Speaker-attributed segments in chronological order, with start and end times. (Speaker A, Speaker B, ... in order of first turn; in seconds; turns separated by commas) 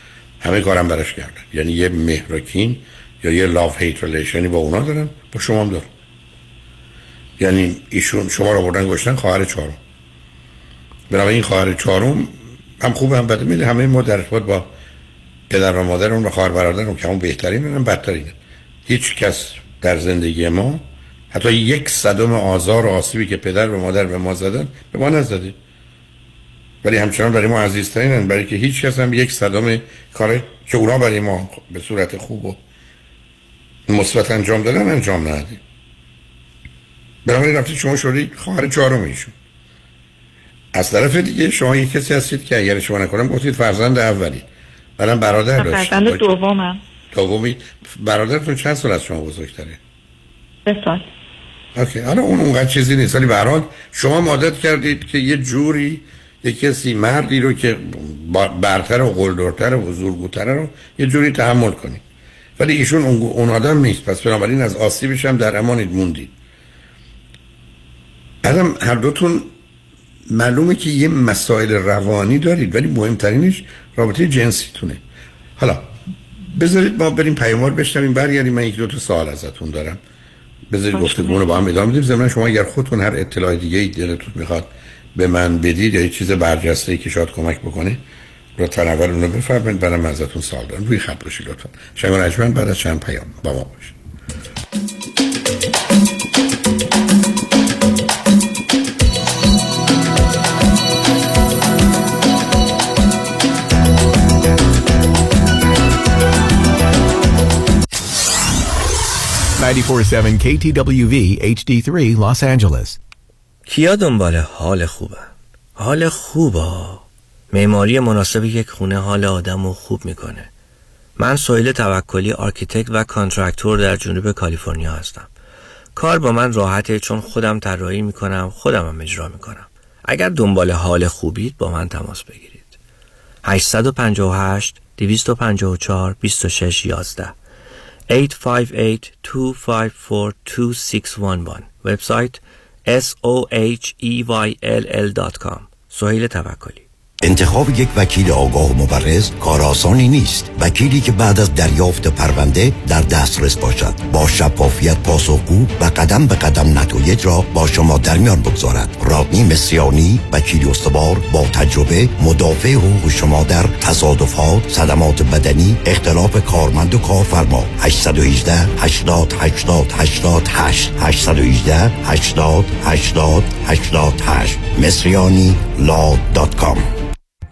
Speaker A: 0.4-5.9, Speaker A: 7.4-9.8, Speaker A: 11.1-14.7, Speaker A: 15.5-25.6, Speaker A: 26.8-32.6, Speaker A: 33.9-35.6, Speaker A: 37.2-39.3, Speaker A: 40.7-44.5, Speaker A: 45.0-46.2, Speaker B: 45.6-46.8, Speaker A: 47.1-49.8, Speaker B: 50.7-51.1, Speaker A: 51.8-62.0, Speaker A: 62.6-66.3, Speaker A: 68.4-69.5, Speaker A: 70.3-75.0, Speaker A: 75.6-75.9, Speaker A: 76.5-80.0, Speaker A: 80.7-88.0, Speaker B: 80.9-81.7, Speaker A: 88.6-94.0, Speaker C: 109.6-113.0, Speaker D: 113.7-120.5, Speaker D: 121.2-125.3, Speaker D: 126.0-132.7, Speaker D: 133.4-137.3, Speaker D: 138.1-146.8, Speaker E: 147.2-176.9